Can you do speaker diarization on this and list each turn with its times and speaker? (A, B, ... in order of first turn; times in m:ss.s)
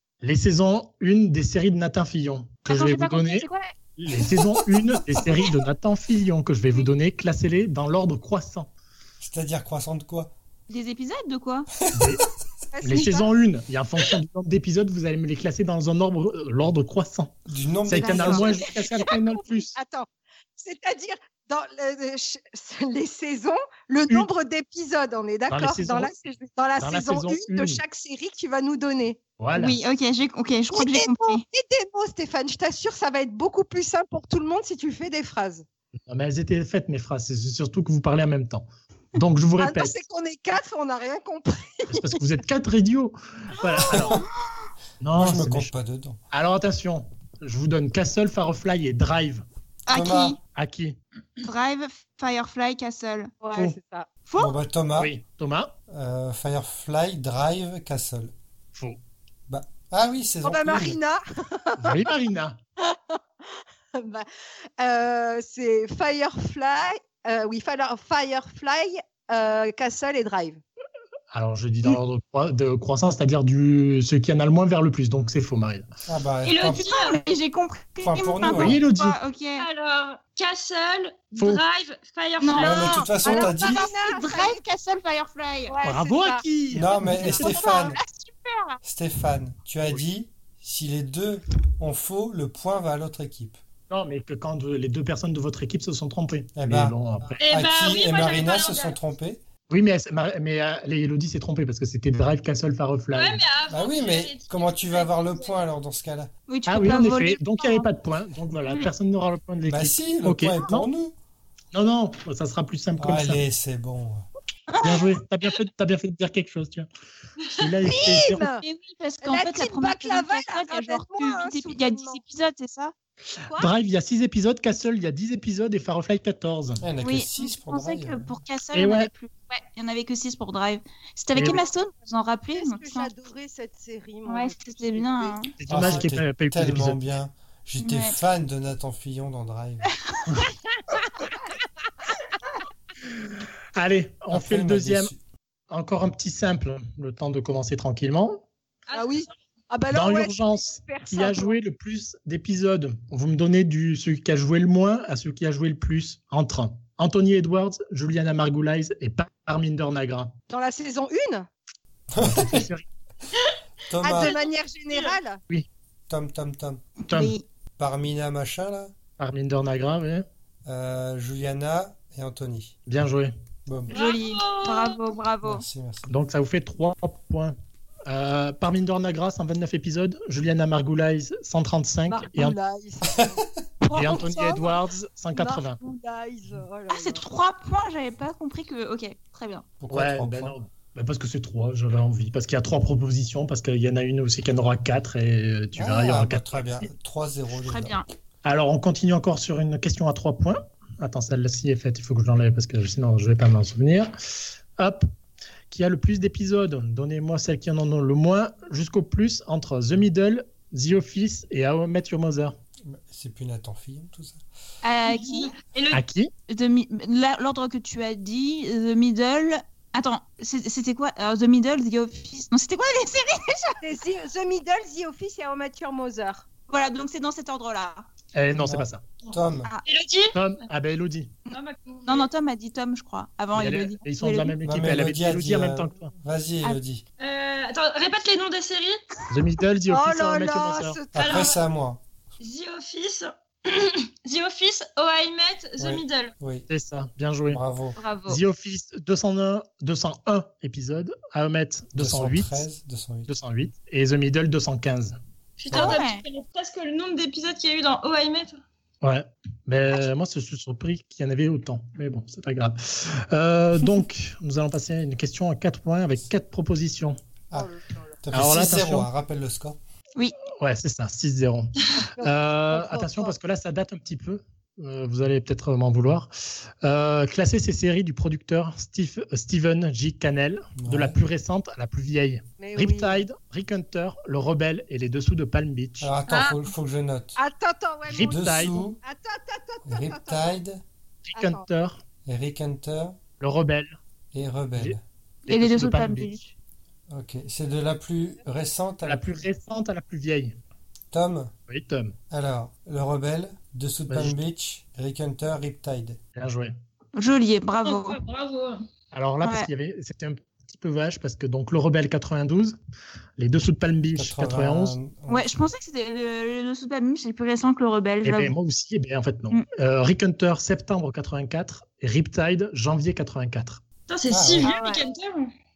0:00.2-0:03.4 A
0:02.7-0:03.7 B
0:04.0-0:08.7 A
0:09.2-0:10.3 C
0:10.7-0:11.7 B
0:11.8-0:12.2 C
0:11.9-0:12.2 A
0:12.7-0:13.3 D
0:12.8-0:17.3 A
0:17.5-0:18.5 C
0:17.8-0:19.7 A
0:17.9-0:29.2 D
0:25.5-0:26.1 A
0:26.8-0:27.8 A
0:29.4-0:29.8 A
0:29.5-0:31.4 B
0:30.7-0:35.6 D
0:36.1-0:40.0 A
0:39.6-0:42.2 D
0:41.9-0:44.1 A
0:43.6-0:44.2 D
0:43.9-0:44.2 C
0:45.0-0:45.7 A
0:45.1-0:46.2 C
0:46.3-0:49.4 A
0:49.9-0:50.4 B
0:49.9-0:50.4 C
0:50.5-0:51.0 A
0:51.4-0:53.4 B
0:53.4-0:54.1 D
0:54.3-0:54.6 B
0:54.4-0:55.1 C
0:55.0-0:55.7 A
0:55.9-0:58.3 C
0:59.5-1:01.0 C
1:00.4-1:02.1 D
1:01.8-1:02.6 A
1:03.9-1:04.2 D
1:04.8-1:10.6 D
1:11.3-1:15.8 A
1:16.1-1:16.9 C
1:16.4-1:17.2 E
1:16.6-1:19.6 B
1:18.0-1:18.8 C
1:18.5-1:19.2 A
1:19.6-1:23.2 E
1:22.4-1:25.7 B
1:22.6-1:23.9 C
1:22.8-1:24.6 D
1:25.7-1:28.0 D
1:25.8-1:27.3 A
1:26.7-1:28.0 C
1:27.2-1:28.8 B
1:28.8-1:33.6 C
1:33.9-1:37.4 A
1:36.6-1:39.4 C
1:37.4-1:39.0 E
1:39.7-1:43.4 A
1:43.1-1:45.6 E
1:43.7-1:46.3 C
1:46.5-1:47.8 B
1:46.7-1:50.9 A
1:49.6-1:51.1 C
1:51.7-1:53.4 A
1:53.0-1:54.2 C
1:54.7-1:55.1 B
1:54.8-1:56.9 A
1:57.5-1:58.5 A
1:57.8-1:58.6 D
1:58.5-2:02.9 B
1:59.2-2:02.2 D
2:03.4-2:03.7 D
2:03.6-2:06.8 A
2:06.8-2:08.2 C
2:07.0-2:13.1 B
2:08.7-2:09.1 A
2:11.3-2:11.6 A
2:12.5-2:16.0 D
2:14.3-2:15.5 B
2:15.6-2:17.0 A
2:15.7-2:19.9 C
2:17.8-2:18.2 B
2:23.7-2:25.1 A
2:24.3-2:25.2 C
2:25.7-2:28.4 A
2:28.9-2:29.3 E
2:28.9-2:31.6 D
2:29.9-2:40.3 A
2:40.5-2:41.5 D
2:42.1-2:42.7 C
2:42.2-2:42.8 A
2:43.9-2:44.3 C
2:44.0-2:45.4 D
2:44.1-2:44.4 E
2:44.9-2:45.2 E
2:46.1-2:46.8 C
2:47.0-2:47.4 B
2:47.1-2:47.3 A
2:47.8-2:48.9 C
2:49.2-2:50.2 A
2:50.6-2:52.7 C
2:52.9-2:53.3 A
2:53.6-2:53.9 C
2:53.9-2:55.0 E
2:53.9-2:55.6 B
2:55.4-2:56.1 C
2:56.1-2:57.6 A
2:58.1-3:02.5 A
3:02.1-3:04.8 D
3:03.9-3:05.8 A
3:05.3-3:07.2 D
3:06.9-3:09.6 B
3:09.8-3:10.5 C
3:09.9-3:16.8 A
3:15.7-3:18.0 C
3:17.6-3:18.0 B
3:18.4-3:24.1 A
3:24.8-3:25.1 A
3:25.7-3:32.5 A
3:32.8-3:34.4 C
3:34.8-3:35.5 B
3:35.0-3:36.0 E
3:35.9-3:36.3 A
3:36.5-3:43.8 B
3:43.8-3:46.4 D
3:46.7-3:48.1 B
3:48.3-3:49.0 A
3:48.5-3:49.7 C
3:49.8-3:50.4 E
3:50.3-3:51.3 A
3:51.5-3:52.3 E
3:52.1-3:54.6 B
3:53.5-3:56.1 A
3:54.6-3:57.0 C
3:57.2-3:59.0 E
3:59.3-4:01.0 A
3:59.9-4:01.5 D
4:01.1-4:02.0 C
4:01.2-4:01.6 E
4:02.4-4:06.3 E
4:05.8-4:06.7 C
4:06.7-4:07.6 A
4:07.5-4:08.0 C
4:08.0-4:08.4 B
4:08.3-4:12.6 A
4:11.9-4:13.3 C
4:13.3-4:15.2 A
4:15.6-4:18.6 E
4:15.7-4:16.0 A
4:15.7-4:16.2 B
4:19.0-4:27.2 A
4:27.5-4:28.0 D
4:28.2-4:29.8 C
4:28.3-4:29.1 A
4:30.6-4:36.3 A
4:31.9-4:33.4 D
4:36.8-4:46.1 A
4:40.8-4:41.2 C
4:42.6-4:43.2 D
4:46.0-4:47.4 C
4:46.3-4:46.6 D
4:47.4-4:50.6 D
4:48.1-4:48.8 A
4:48.2-4:49.0 C
4:49.8-4:50.8 C
4:51.3-4:52.0 A
4:51.3-4:51.6 D
4:52.2-4:53.2 C
4:53.4-4:54.0 A
4:54.3-4:55.0 C
4:55.5-4:56.3 A
4:55.5-4:56.5 B
4:57.1-4:59.3 C
4:59.0-5:00.6 A
5:01.1-5:01.5 C
5:01.7-5:02.1 A
5:02.3-5:06.2 C
5:04.1-5:04.4 A
5:06.4-5:06.7 A
5:07.2-5:08.2 B
5:07.8-5:08.8 E
5:09.1-5:12.8 A
5:09.4-5:09.7 B
5:13.4-5:15.0 A
5:14.1-5:15.5 C
5:15.3-5:18.6 B
5:18.2-5:23.8 A
5:24.1-5:25.5 E
5:24.3-5:24.7 C
5:24.6-5:25.0 B